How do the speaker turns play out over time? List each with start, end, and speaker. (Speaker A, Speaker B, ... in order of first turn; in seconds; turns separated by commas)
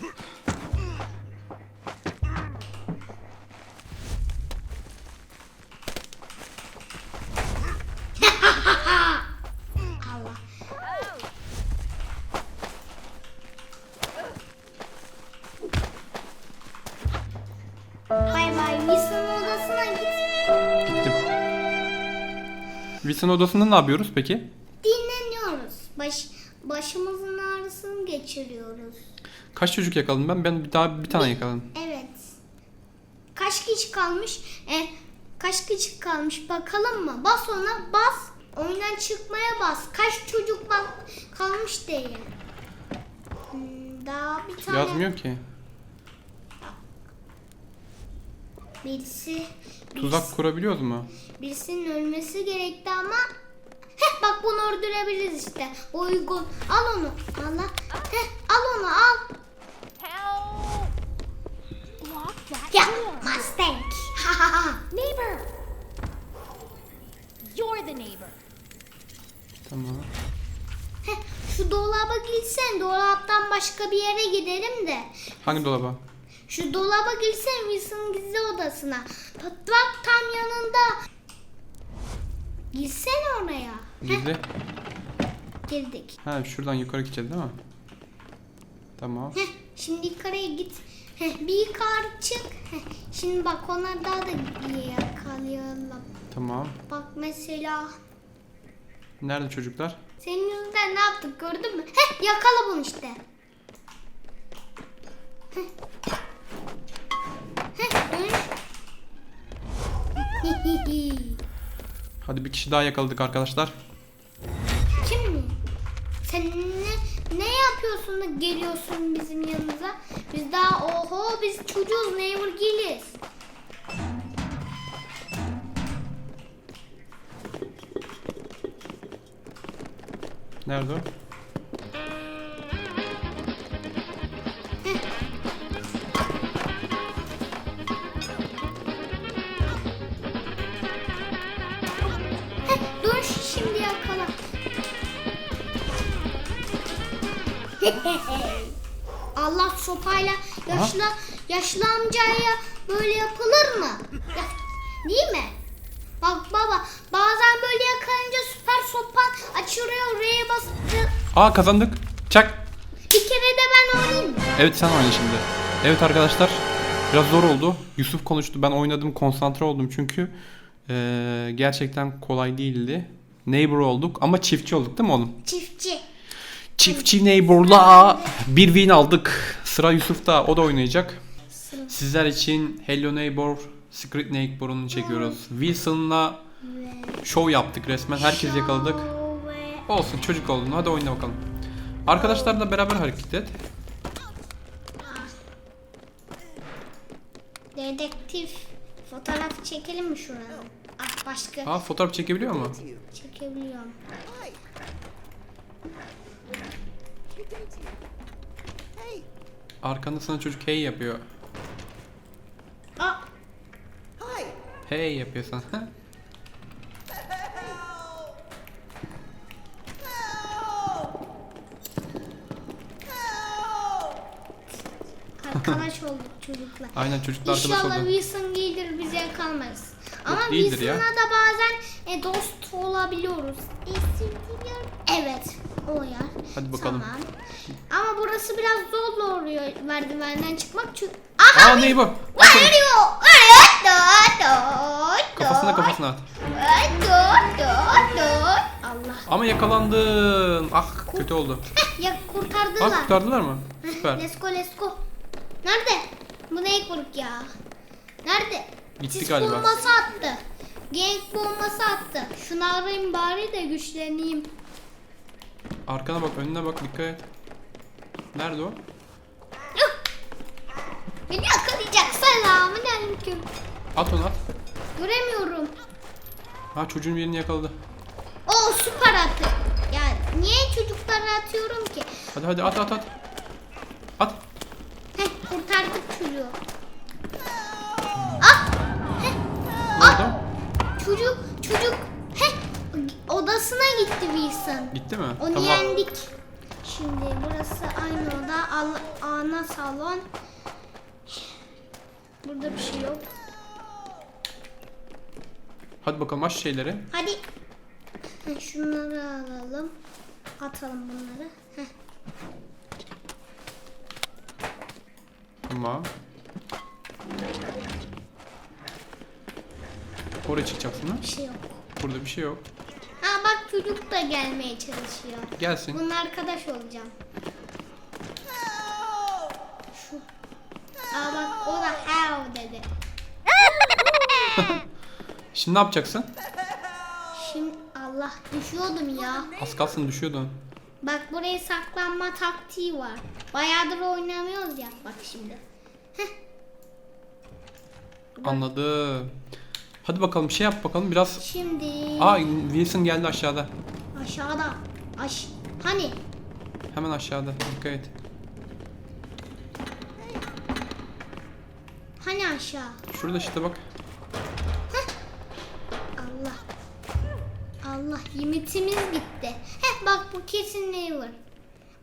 Speaker A: 8.2-9.2, Speaker A: 10.0-10.4, Speaker A: 18.3-20.2, Speaker B: 20.9-21.2, Speaker B: 23.0-24.5, Speaker A: 24.8-29.0, Speaker B: 29.6-31.7, Speaker A: 31.1-32.4, Speaker A: 33.4-42.3, Speaker A: 43.5-45.1, Speaker B: 44.6-45.4, Speaker A: 48.8-50.4, Speaker B: 50.0-51.1, Speaker A: 51.4-53.3, Speaker A: 54.0-59.3, Speaker C: 60.0-60.9, Speaker C: 62.0-63.4, Speaker A: 62.7-64.8, Speaker C: 64.9-65.5, Speaker C: 67.4-68.4, Speaker B: 69.7-70.1, Speaker A: 71.0-75.6, Speaker B: 75.5-76.0, Speaker A: 76.5-81.0, Speaker A: 82.7-84.3, Speaker B: 84.0-84.5, Speaker A: 85.7-86.2, Speaker B: 86.2-87.6, Speaker B: 89.0-89.4, Speaker A: 89.3-96.1, Speaker B: 96.3-96.8, Speaker A: 96.9-97.9, Speaker B: 99.2-100.0, Speaker A: 100.2-103.2, Speaker A: 107.8-108.5, Speaker A: 110.4-111.4, Speaker B: 112.2-113.8, Speaker A: 115.0-115.6, Speaker A: 116.2-123.2, Speaker B: 130.7-131.1, Speaker A: 142.7-144.3, Speaker A: 147.8-148.8, Speaker A: 149.4-155.6, Speaker B: 150.7-150.9, Speaker A: 156.2-161.1, Speaker B: 161.3-162.6, Speaker A: 163.1-164.5, Speaker B: 164.6-170.3, Speaker B: 170.9-175.4, Speaker A: 175.4-176.0, Speaker B: 176.8-181.2, Speaker A: 176.8-178.4, Speaker A: 181.5-182.0, Speaker B: 181.9-186.4, Speaker A: 184.9-185.4, Speaker A: 186.6-187.2, Speaker B: 187.2-189.1, Speaker A: 188.2-189.9, Speaker B: 189.9-191.4, Speaker B: 192.1-193.6, Speaker A: 195.0-195.3, Speaker A: 197.8-201.7, Speaker B: 201.7-202.8, Speaker A: 203.1-204.0, Speaker B: 209.8-211.2, Speaker A: 213.0-213.2, Speaker B: 214.9-215.9, Speaker A: 225.4-237.3, Speaker B: 226.9-228.1, Speaker B: 230.3-231.1, Speaker B: 236.6-237.1, Speaker A: 237.9-249.3, Speaker B: 241.5-242.8, Speaker B: 245.4-246.3, Speaker B: 249.3-251.7, Speaker A: 251.1-253.1, Speaker B: 252.8-254.2, Speaker A: 253.8-255.0, Speaker A: 255.6-257.5, Speaker A: 258.2-264.5, Speaker B: 259.0-259.9, Speaker B: 265.9-267.3, Speaker B: 268.3-268.8, Speaker A: 271.3-273.5, Speaker B: 274.0-274.4, Speaker A: 275.0-275.7, Speaker B: 276.7-277.8, Speaker A: 278.5-282.1, Speaker B: 282.3-283.1, Speaker A: 285.2-286.6, Speaker A: 288.4-289.4, Speaker B: 290.0-290.4, Speaker A: 290.0-290.4, Speaker A: 291.0-296.3, Speaker B: 294.9-296.0, Speaker A: 296.8-300.2, Speaker A: 302.4-303.3, Speaker B: 306.0-307.1, Speaker A: 307.1-307.4, Speaker A: 308.4-309.9, Speaker A: 310.6-311.9, Speaker B: 315.7-316.1, Speaker B: 320.4-321.3, Speaker A: 321.2-321.8, Speaker B: 322.0-322.6, Speaker A: 323.2-327.1, Speaker B: 325.6-326.0, Speaker A: 329.9-330.2, Speaker A: 331.1-332.9, Speaker B: 334.5-334.9, Speaker B: 335.5-336.3, Speaker A: 337.3-339.6, Speaker B: 339.6-340.6, Speaker A: 341.0-345.6, Speaker A: 348.4-348.6, Speaker B: 348.4-349.3, Speaker B: 350.0-351.4, Speaker A: 351.4-352.5, Speaker B: 352.2-353.7, Speaker A: 354.1-356.2, Speaker B: 356.9-358.1, Speaker A: 362.2-363.0, Speaker B: 363.1-363.8, Speaker A: 366.2-366.6, Speaker A: 367.8-371.4